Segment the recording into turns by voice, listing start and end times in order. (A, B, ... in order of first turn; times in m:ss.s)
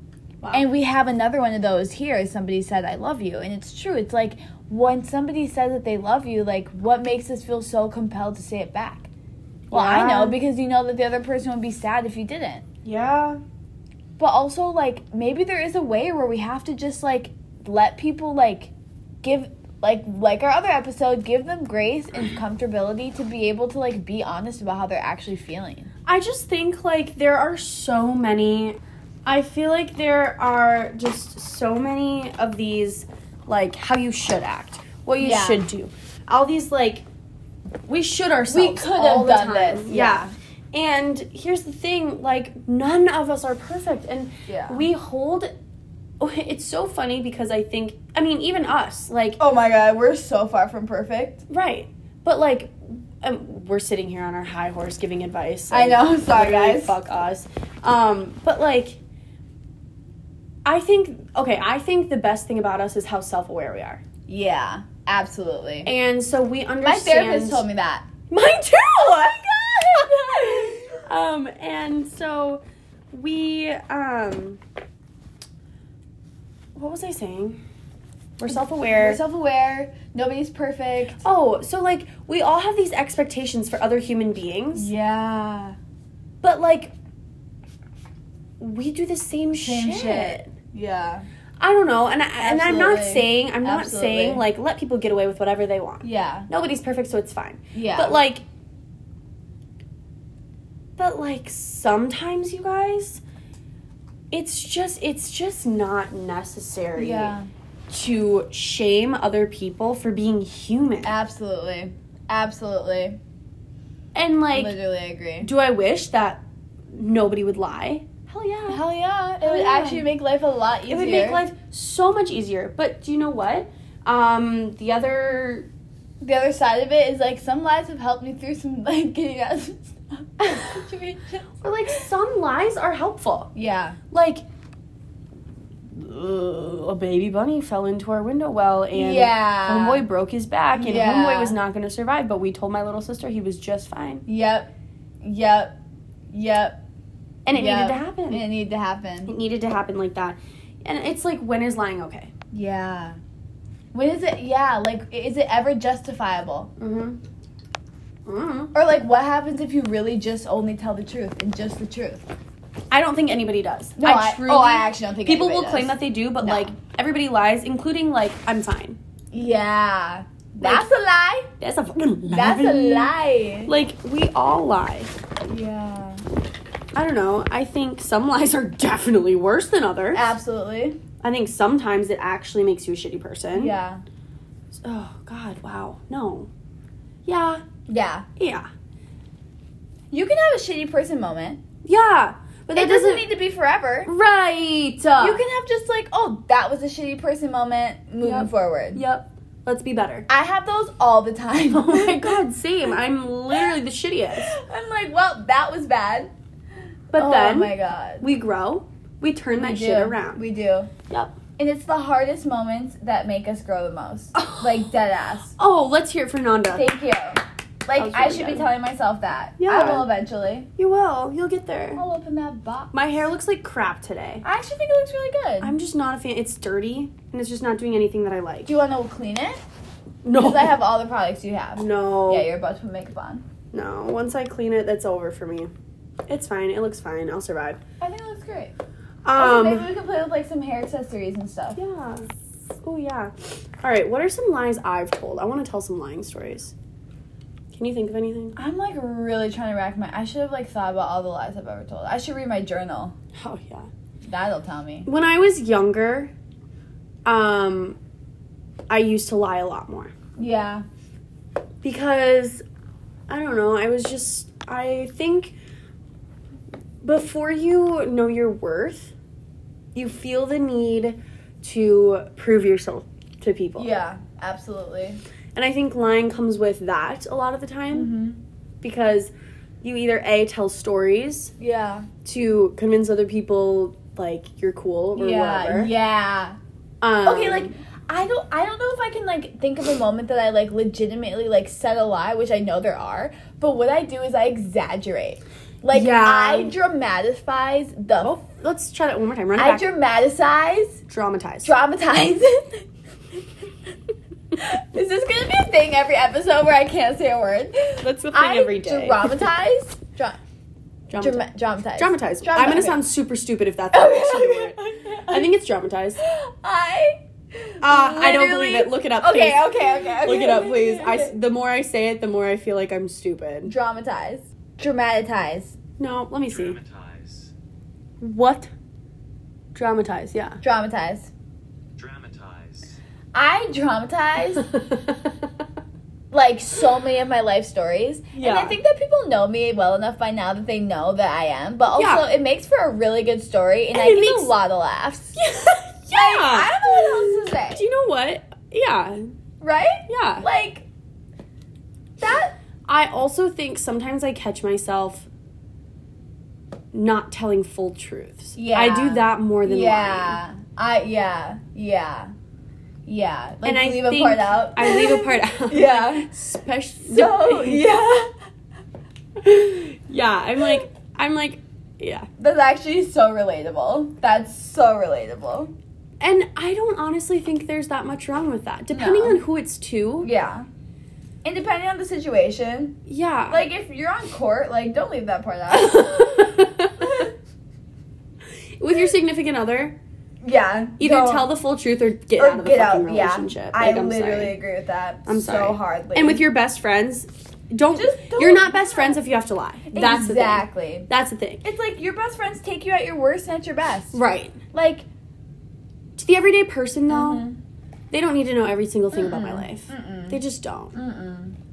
0:00.4-0:00.7 A
0:00.5-0:09.1 B
0:09.7-0:10.4 A
0:09.7-0:12.6 B
0:12.8-0:13.4 A
0:14.2-0:18.7 B
0:19.2-0:25.9 B
0:26.1-0:37.0 A
0:35.2-0:35.7 B
0:37.8-0:45.5 A
0:38.5-0:40.3 B
0:44.5-0:44.9 B
0:46.2-0:49.4 A
0:49.4-0:51.4 B
0:51.5-0:59.0 A
0:55.7-0:57.0 B
1:00.6-1:04.0 A
1:04.3-1:05.9 B
1:05.8-1:07.6 A
1:06.8-1:08.0 B
1:08.3-1:14.6 A
1:09.9-1:11.0 B
1:16.7-1:17.6 A
1:18.4-1:19.2 A
1:18.9-1:21.2 B
1:21.2-1:24.9 A
1:24.7-1:25.8 B
1:26.4-1:26.9 A
1:28.6-1:30.5 A
1:29.6-1:31.2 B
1:31.6-1:38.4 A
1:32.4-1:34.4 B
1:36.0-1:36.5 B
1:37.7-1:38.2 B
1:41.0-1:43.2 A
1:44.3-1:47.3 A
1:47.0-1:47.5 B
1:47.9-1:51.1 A
1:51.0-1:53.2 B
1:54.1-1:54.7 A
1:54.5-1:55.5 B
1:55.4-1:56.4 A
1:56.9-1:58.8 A
1:58.7-2:01.4 B
1:59.4-2:00.0 A
2:00.9-2:05.7 A
2:06.2-2:11.5 B
2:11.6-2:13.5 A
2:13.5-2:14.0 B
2:14.1-2:14.4 A
2:15.9-2:24.2 A
2:18.9-2:20.0 B
2:20.7-2:21.6 B
2:24.3-2:24.7 B
2:25.2-2:25.8 B
2:26.3-2:26.8 B
2:27.4-2:28.4 A
2:27.5-2:29.3 B
2:29.2-2:32.3 A
2:32.5-2:33.2 B
2:33.9-2:36.7 B
2:36.8-2:37.2 A
2:38.2-2:38.7 A
2:38.7-2:42.3 B
2:42.9-2:49.0 A
2:44.0-2:46.7 B
2:49.3-2:51.5 B
2:50.6-2:50.8 A
2:51.6-2:53.1 A
2:52.2-2:53.7 B
2:53.6-2:55.1 A
2:55.4-2:56.2 B
2:56.9-3:00.3 A
3:00.1-3:01.0 B
3:01.2-3:03.7 A
3:03.5-3:04.0 B
3:04.7-3:06.5 A
3:07.2-3:07.6 A
3:07.9-3:08.2 B
3:08.4-3:08.7 A
3:10.1-3:11.6 B
3:11.8-3:13.2 A
3:12.7-3:14.1 B
3:14.0-3:15.4 A
3:15.2-3:19.0 B
3:18.2-3:20.3 A
3:20.3-3:22.4 B
3:21.7-3:24.6 A
3:24.4-3:26.3 B
3:27.1-3:30.4 A
3:27.2-3:28.2 B
3:29.6-3:30.9 B
3:31.1-3:31.3 A
3:31.6-3:35.5 B
3:34.3-3:34.9 A
3:35.6-3:36.9 A
3:36.7-3:40.7 B
3:37.9-3:38.7 A
3:39.6-3:40.1 A
3:40.8-3:42.0 A
3:42.0-3:43.0 B
3:42.9-3:44.4 A
3:44.4-3:45.7 B
3:45.6-3:48.7 A
3:48.6-3:49.6 B
3:50.2-3:50.8 A
3:50.3-3:53.4 B
3:51.8-3:52.5 A
3:53.7-3:55.7 A
3:56.3-3:57.8 A
3:58.0-3:58.7 B
3:59.2-3:59.9 A
3:59.4-4:01.8 B
4:01.7-4:02.3 A
4:02.8-4:06.7 A
4:07.7-4:08.6 A
4:08.6-4:13.1 B
4:13.4-4:13.9 A
4:14.2-4:15.1 B
4:15.0-4:16.3 A
4:17.2-4:18.0 A
4:18.9-4:20.1 A
4:20.4-4:20.8 B
4:21.8-4:22.6 A
4:23.3-4:25.5 A
4:27.0-4:29.1 A
4:29.9-4:33.9 A
4:33.8-4:35.2 B
4:35.5-4:38.1 A
4:37.9-4:38.4 B
4:38.8-4:41.5 A
4:41.6-4:42.1 B
4:42.2-4:45.9 A
4:45.2-4:46.6 B
4:47.0-4:47.7 A
4:47.2-4:58.4 B
4:55.9-4:56.7 A
4:58.2-4:59.8 A
4:59.6-5:01.0 B
5:01.1-5:01.8 A
5:01.6-5:02.8 B
5:04.5-5:10.4 B
5:08.0-5:09.3 A
5:11.1-5:16.2 A
5:11.2-5:13.0 B
5:13.9-5:15.5 B
5:16.2-5:21.4 B
5:17.8-5:23.7 A
5:23.6-5:25.7 B
5:26.0-5:26.8 A
5:26.5-5:27.5 C
5:28.2-5:28.7 A
5:29.7-5:30.6 A
5:30.6-5:31.3 B
5:32.0-5:33.0 C
5:33.3-5:34.7 B
5:34.7-5:35.3 A
5:36.3-5:45.4 B
5:38.3-5:38.8 A
5:41.9-5:42.3 A
5:43.9-5:44.5 A
5:45.4-5:49.3 A
5:46.1-5:47.8 B
5:49.6-5:50.9 B
5:50.1-5:50.5 A
5:52.2-5:52.6 B
5:52.9-5:55.3 A
5:56.9-6:00.4 A
5:58.6-6:02.3 B
6:03.0-6:06.3 B
6:03.6-6:07.8 A
6:07.1-6:08.3 B
6:09.4-6:12.3 A
6:12.4-6:15.7 B
6:16.2-6:20.3 A
6:18.9-6:19.4 B
6:20.2-6:20.7 B
6:21.4-6:27.3 B
6:23.1-6:23.6 A
6:25.7-6:27.1 A
6:28.8-6:30.0 A
6:30.4-6:31.5 B
6:31.0-6:34.5 A
6:32.4-6:36.4 B
6:35.2-6:41.6 A
6:37.9-6:39.2 B
6:39.9-6:41.1 B
6:41.6-6:44.2 B
6:44.1-6:44.6 A
6:44.7-6:45.0 B
6:46.2-6:47.4 A
6:47.1-6:47.6 B
6:48.1-6:51.0 A
6:49.1-6:50.4 B
6:50.9-6:51.6 B